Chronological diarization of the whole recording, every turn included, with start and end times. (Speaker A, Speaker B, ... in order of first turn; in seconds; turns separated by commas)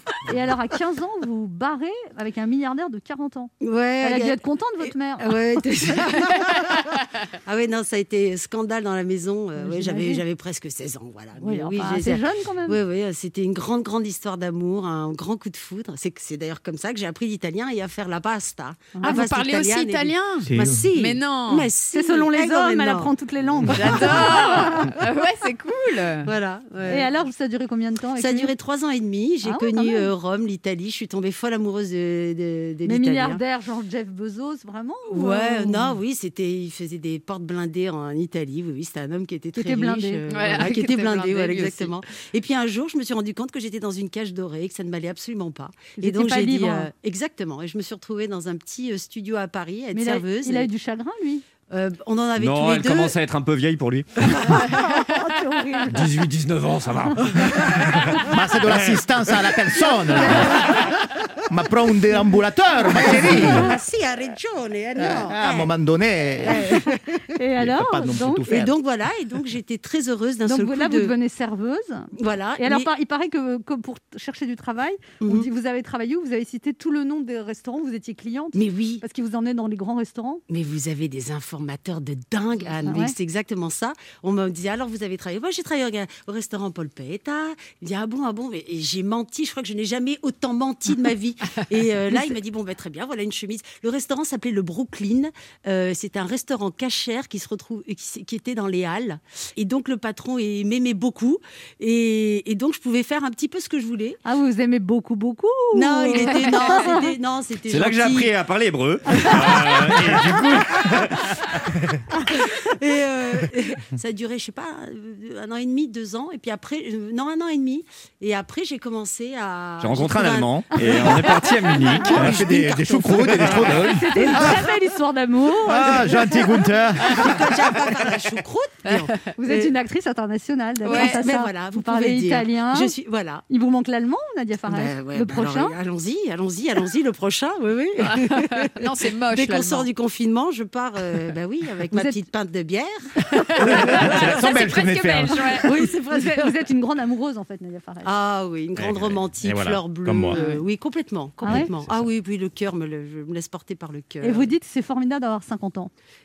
Speaker A: 0.2-5.6, Speaker B: 3.6-23.1, Speaker A: 9.6-10.2, Speaker A: 11.4-12.8, Speaker A: 18.9-19.2, Speaker C: 19.0-21.7, Speaker D: 20.4-20.8, Speaker A: 21.9-24.9, Speaker B: 23.6-24.7, Speaker C: 23.7-26.3, Speaker B: 26.2-27.1, Speaker A: 26.9-28.5, Speaker B: 28.2-33.4, Speaker A: 29.4-30.1, Speaker A: 32.8-36.0, Speaker B: 35.1-50.7, Speaker A: 39.5-40.8, Speaker C: 40.3-41.9, Speaker A: 46.0-46.9, Speaker A: 49.9-51.4, Speaker B: 51.7-53.2, Speaker E: 52.4-54.6, Speaker A: 54.5-56.1, Speaker E: 55.9-58.3, Speaker D: 57.2-63.7, Speaker A: 60.2-60.8, Speaker B: 62.9-65.7, Speaker A: 63.4-63.7, Speaker D: 65.0-67.0, Speaker B: 66.4-67.2, Speaker A: 67.3-68.5, Speaker D: 67.5-68.7, Speaker B: 68.5-71.1, Speaker A: 70.5-80.4, Speaker B: 72.1-72.9, Speaker B: 75.2-75.5, Speaker B: 78.5-79.0, Speaker B: 80.5-104.2, Speaker A: 82.8-83.1, Speaker A: 104.2-107.1, Speaker B: 105.7-108.3, Speaker C: 106.2-106.9, Speaker E: 107.7-112.0, Speaker B: 109.2-110.1, Speaker B: 112.3-124.4, Speaker E: 119.8-122.4, Speaker D: 122.0-124.7, Speaker A: 122.0-126.7, Speaker E: 123.1-123.9, Speaker D: 125.6-127.9, Speaker B: 127.0-129.7, Speaker C: 128.8-129.1, Speaker A: 129.3-132.9, Speaker B: 130.8-133.4, Speaker C: 130.8-131.2, Speaker A: 133.5-135.7, Speaker B: 134.7-144.6, Speaker C: 138.0-139.9, Speaker A: 141.9-142.2, Speaker D: 143.6-145.6, Speaker C: 143.6-145.7, Speaker A: 145.6-148.1, Speaker B: 146.1-146.5, Speaker B: 148.0-154.5, Speaker D: 148.8-150.4, Speaker A: 150.3-150.6, Speaker A: 151.4-151.7, Speaker D: 151.5-151.9, Speaker A: 154.2-155.9